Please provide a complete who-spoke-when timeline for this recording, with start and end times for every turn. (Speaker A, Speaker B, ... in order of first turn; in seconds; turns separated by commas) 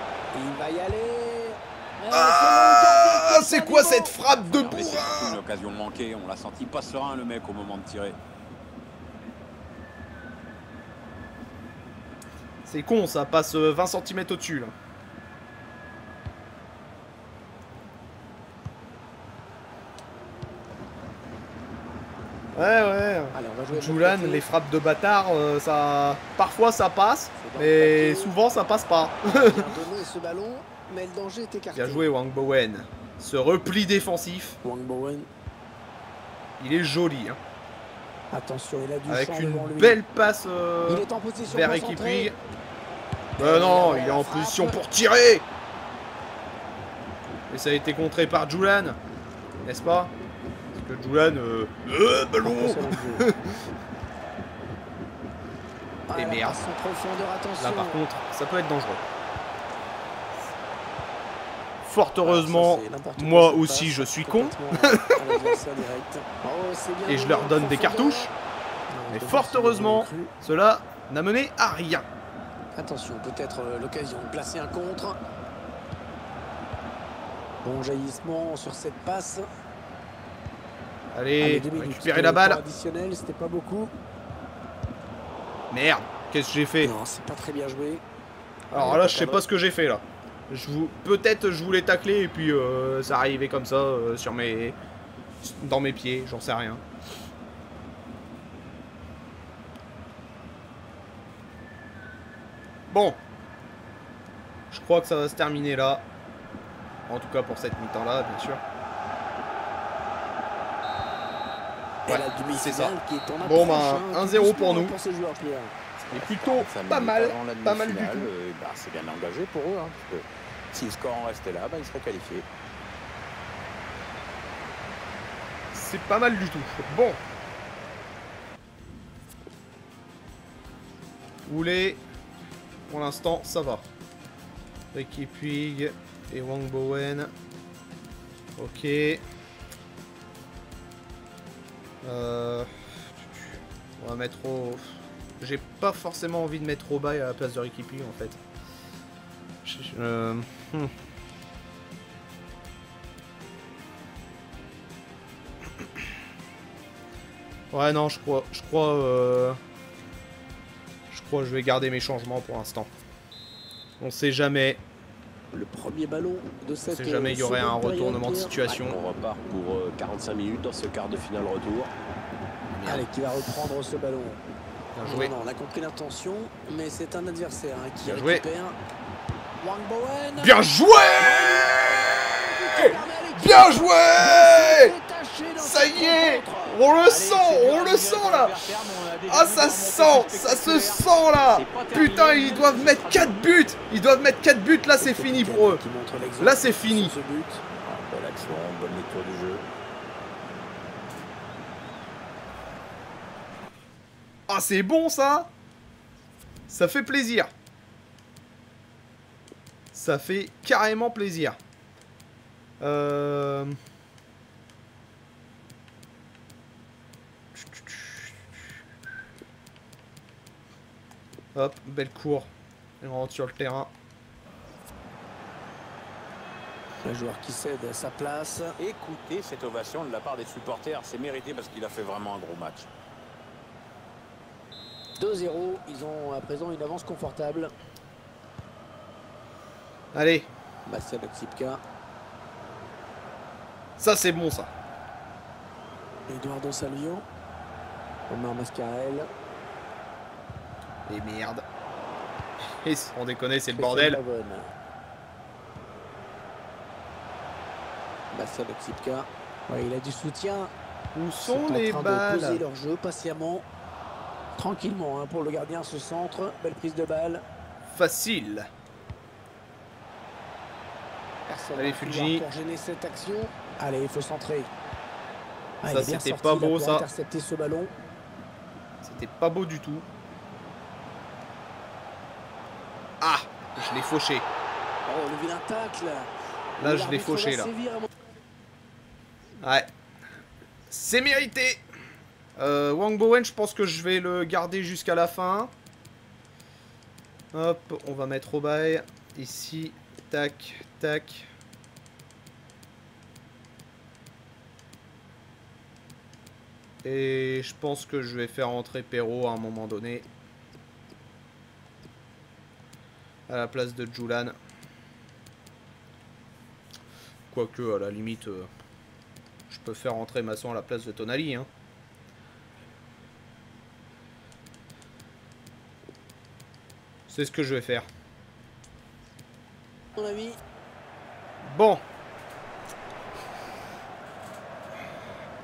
Speaker A: 0.3-4.2, Speaker B: 2.1-5.4, Speaker C: 4.4-8.2, Speaker B: 12.7-14.7, Speaker B: 22.6-29.7, Speaker A: 23.3-24.5, Speaker A: 27.4-28.3, Speaker A: 29.3-32.1, Speaker B: 31.8-34.6, Speaker A: 34.6-35.3, Speaker B: 36.6-37.4, Speaker A: 38.3-40.0, Speaker B: 39.1-42.4, Speaker A: 40.9-42.3, Speaker A: 43.4-44.8, Speaker B: 43.4-45.5, Speaker B: 47.5-49.0, Speaker B: 49.6-50.1, Speaker B: 50.7-53.6, Speaker A: 52.4-53.3, Speaker A: 56.1-58.0, Speaker B: 56.1-56.6, Speaker B: 57.6-59.0, Speaker B: 61.8-65.5, Speaker A: 62.2-68.3, Speaker B: 67.1-68.3, Speaker A: 68.9-70.3, Speaker B: 69.1-72.1, Speaker A: 72.8-75.2, Speaker A: 77.6-79.5, Speaker B: 81.1-82.6, Speaker A: 81.4-83.9, Speaker B: 85.7-86.9, Speaker A: 86.8-88.0, Speaker B: 88.7-94.8, Speaker A: 88.7-89.4, Speaker B: 95.4-96.8, Speaker B: 102.9-103.2, Speaker B: 104.7-106.1, Speaker B: 107.1-108.6, Speaker A: 112.1-116.4, Speaker B: 112.1-114.9, Speaker B: 116.1-118.3, Speaker C: 116.2-122.5, Speaker B: 125.7-127.2, Speaker B: 131.5-132.0, Speaker B: 132.9-133.9, Speaker B: 134.9-137.3, Speaker B: 138.6-139.2, Speaker B: 142.0-148.4, Speaker B: 149.6-150.9, Speaker B: 157.7-159.6, Speaker B: 161.1-162.9, Speaker B: 164.0-164.8, Speaker A: 165.5-168.9, Speaker B: 166.9-169.0, Speaker C: 168.7-171.9, Speaker B: 172.8-173.1, Speaker A: 172.8-174.4, Speaker B: 174.9-175.3, Speaker A: 175.0-178.8, Speaker B: 178.1-178.4, Speaker A: 179.6-180.6, Speaker B: 180.4-184.9, Speaker C: 181.2-181.7, Speaker A: 182.2-186.8, Speaker B: 185.6-188.6, Speaker C: 187.1-193.5, Speaker B: 189.3-195.8, Speaker A: 195.0-197.6, Speaker B: 196.4-197.2, Speaker C: 197.8-199.7, Speaker B: 204.5-205.5, Speaker B: 206.7-207.5, Speaker B: 209.9-211.6, Speaker B: 212.8-213.8, Speaker B: 217.5-218.4, Speaker B: 221.6-222.5, Speaker B: 223.0-223.9, Speaker A: 227.0-228.7, Speaker C: 228.8-232.9, Speaker A: 235.2-237.7, Speaker B: 240.1-240.5, Speaker A: 240.9-241.8, Speaker B: 244.0-244.7, Speaker A: 246.3-247.2, Speaker A: 248.3-249.3, Speaker B: 251.1-251.6, Speaker B: 252.8-254.2, Speaker A: 253.7-254.7, Speaker A: 258.3-260.7, Speaker B: 261.1-262.6, Speaker A: 261.5-263.7, Speaker A: 264.6-267.4, Speaker B: 267.9-268.7, Speaker A: 271.5-274.7, Speaker B: 271.8-272.5, Speaker A: 275.8-277.9, Speaker B: 275.9-277.1, Speaker B: 279.0-280.1, Speaker B: 283.2-284.5, Speaker A: 285.1-286.3, Speaker B: 286.8-287.7, Speaker A: 286.8-288.1, Speaker B: 289.6-289.9, Speaker B: 290.9-291.8, Speaker B: 292.6-295.7, Speaker B: 297.5-301.5, Speaker B: 307.0-310.3, Speaker B: 313.5-314.5, Speaker B: 317.5-318.7, Speaker B: 319.7-321.7, Speaker B: 327.3-328.1, Speaker A: 330.2-330.6, Speaker B: 331.6-332.0